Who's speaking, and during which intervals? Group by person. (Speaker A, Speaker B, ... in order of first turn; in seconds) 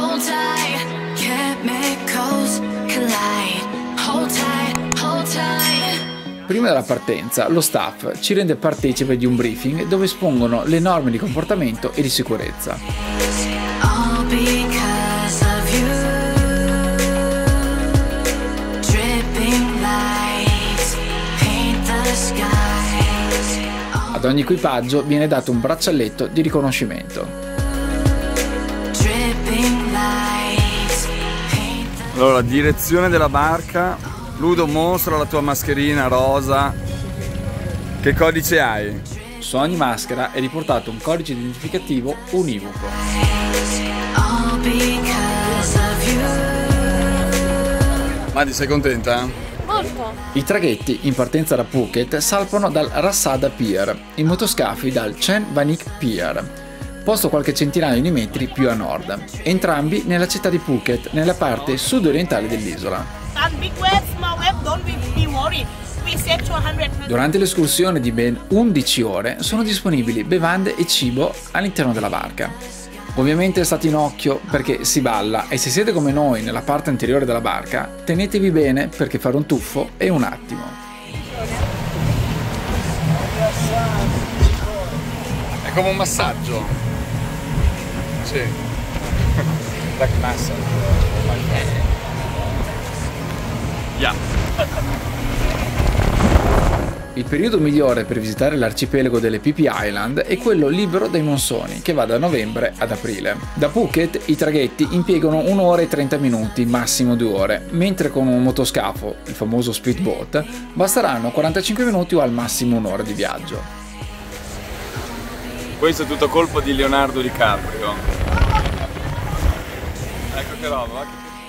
Speaker A: 6.5-12.8, 24.1-27.3, 39.4-43.0, 50.3-56.5, 57.0-63.1, 67.0-72.6, 73.1-80.8, 97.1-113.7
Speaker B: 32.1-36.8, 38.0-39.0, 48.3-49.4, 85.6-86.8, 88.2-88.6, 89.9-91.9, 115.8-118.0, 120.3-121.3